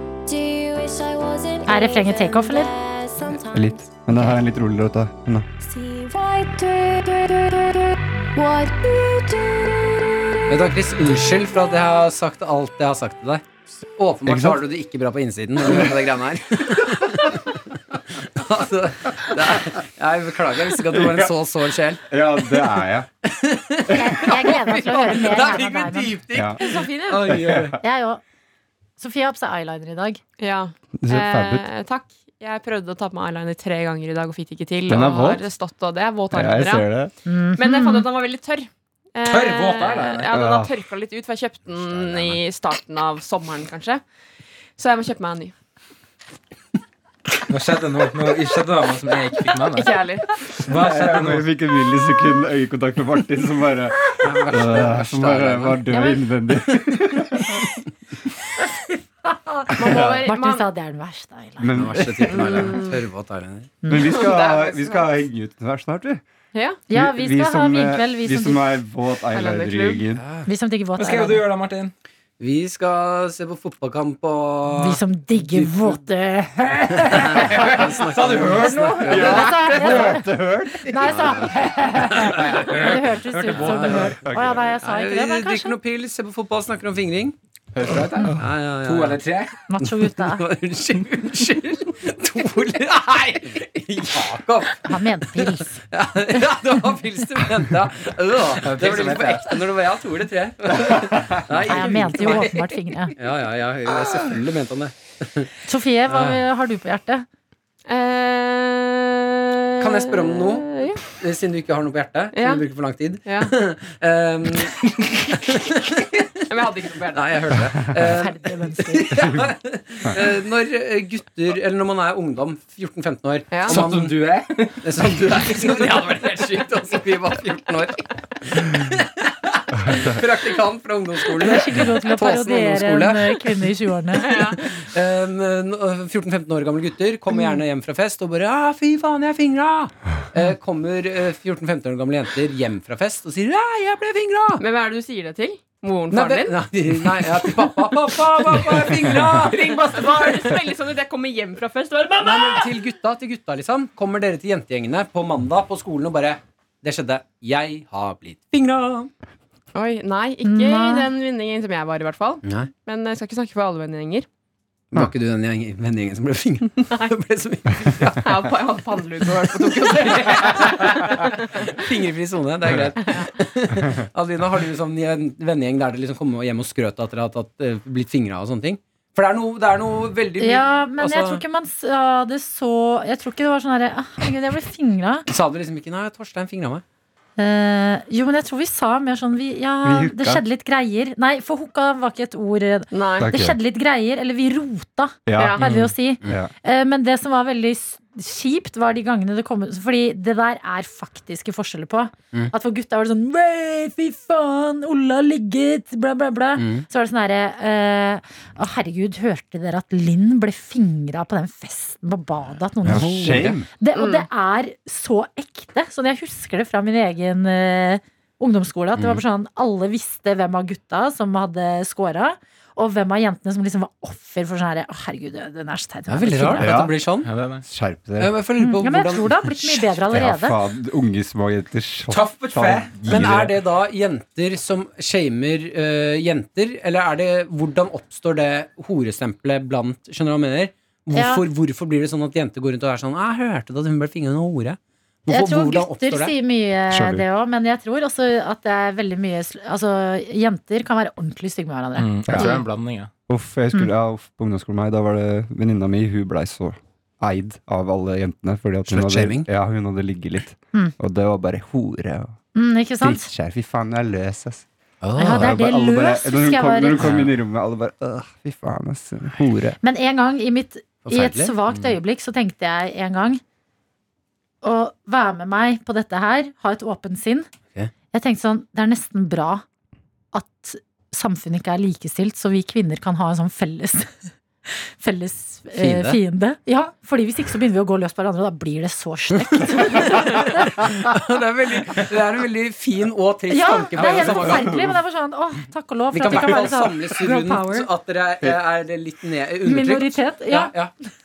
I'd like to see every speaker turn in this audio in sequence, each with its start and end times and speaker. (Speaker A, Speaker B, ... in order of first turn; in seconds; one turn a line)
Speaker A: 0.3-4.4
Speaker B: 1.7-2.7
Speaker C: 3.4-5.5
Speaker A: 5.6-10.4
Speaker D: 10.5-13.4
Speaker D: 14.0-27.8
Speaker C: 14.2-14.6
Speaker C: 15.6-16.0
Speaker C: 20.9-21.3
Speaker C: 22.1-23.1
Speaker B: 23.9-26.1
Speaker E: 24.9-25.2
Speaker C: 26.3-26.6
Speaker E: 26.6-27.3
Speaker C: 27.3-27.8
Speaker B: 27.8-28.2
Speaker B: 29.0-30.2
Speaker E: 30.4-36.9
Speaker C: 31.0-31.6
Speaker C: 34.9-35.4
Speaker C: 36.3-37.1
Speaker B: 37.3-38.1
Speaker E: 37.6-44.0
Speaker F: 39.2-40.5
Speaker C: 40.3-40.7
Speaker C: 42.0-42.4
Speaker E: 44.8-45.5
Speaker F: 47.5-51.5
Speaker E: 49.7-50.4
Speaker C: 50.7-57.7
Speaker D: 54.2-55.9
Speaker B: 58.6-61.8
Speaker E: 59.7-60.7
Speaker C: 59.8-60.3
Speaker C: 61.6-62.8
Speaker D: 61.8-63.8
Speaker E: 62.3-63.0
Speaker B: 63.8-64.2
Speaker C: 63.9-66.2
Speaker E: 64.0-65.1
Speaker E: 66.5-66.8
Speaker B: 66.9-68.8
Speaker C: 66.9-70.2
Speaker E: 69.3-70.0
Speaker D: 70.2-70.5
Speaker B: 70.5-71.4
Speaker F: 71.0-71.9
Speaker D: 72.4-76.0
Speaker B: 74.8-77.7
Speaker D: 77.1-79.8
Speaker F: 77.4-79.3
Speaker B: 78.5-80.3
Speaker C: 79.1-81.2
Speaker B: 80.8-85.8
Speaker D: 81.1-81.5
Speaker F: 82.2-84.2
Speaker D: 83.6-84.0
Speaker C: 84.2-84.7
Speaker D: 84.8-87.4
Speaker F: 87.8-89.5
Speaker D: 88.4-89.2
Speaker B: 89.7-90.4
Speaker D: 89.8-105.5
Speaker B: 94.8-95.8
Speaker F: 98.6-99.6
Speaker C: 100.8-101.5
Speaker B: 101.7-103.1
Speaker E: 102.0-102.6
Speaker B: 105.7-107.3
Speaker D: 106.1-106.4
Speaker E: 107.9-111.0
Speaker D: 109.8-116.3
Speaker E: 112.3-112.6
Speaker E: 113.3-113.5
Speaker E: 116.5-117.5
Speaker D: 117.1-133.7
Speaker B: 118.0-119.2
Speaker C: 119.1-119.5
Speaker E: 123.5-123.8
Speaker F: 123.7-126.0
Speaker B: 131.4-134.3
Speaker E: 134.2-134.6
Speaker D: 134.2-144.6
Speaker E: 144.6-146.6
Speaker D: 146.1-150.6
Speaker E: 148.5-152.7
Speaker D: 152.2-159.1
Speaker E: 159.7-164.3
Speaker B: 160.4-161.1
Speaker D: 162.4-162.7
Speaker D: 164.9-168.5
Speaker E: 167.9-171.8
Speaker D: 169.4-181.4
Speaker B: 180.4-185.3
Speaker D: 185.3-186.8
Speaker B: 187.4-226.7
Speaker C: 189.8-190.4
Speaker E: 192.9-193.3
Speaker C: 193.2-193.6
Speaker C: 195.3-196.5
Speaker E: 195.4-195.6
Speaker D: 195.6-196.4
Speaker D: 206.6-206.8
Speaker C: 212.8-213.7
Speaker D: 212.9-213.7
Speaker E: 213.9-214.3
Speaker D: 226.1-227.3
Speaker C: 226.6-227.0
Speaker F: 227.2-227.6
Speaker C: 227.6-228.3
Speaker D: 228.2-229.9
Speaker B: 228.6-230.6
Speaker C: 230.1-233.6
Speaker F: 232.1-232.9
Speaker D: 233.1-246.3
Speaker B: 241.1-241.4
Speaker B: 245.3-252.1
Speaker C: 246.9-247.2
Speaker F: 252.0-253.1
Speaker C: 252.3-252.5
Speaker E: 252.4-252.6
Speaker C: 253.3-262.4
Speaker D: 258.9-259.5
Speaker B: 262.6-263.3
Speaker C: 263.0-264.7
Speaker D: 265.0-265.6
Speaker B: 265.2-267.1
Speaker C: 265.2-269.8
Speaker D: 267.0-267.3
Speaker B: 269.8-273.4
Speaker D: 271.1-271.5
Speaker B: 274.6-277.5
Speaker B: 278.1-279.6
Speaker B: 280.3-291.0
Speaker D: 285.8-286.2
Speaker D: 290.2-294.8
Speaker B: 293.5-297.9
Speaker C: 294.0-294.9
Speaker D: 296.1-300.9
Speaker B: 299.6-300.7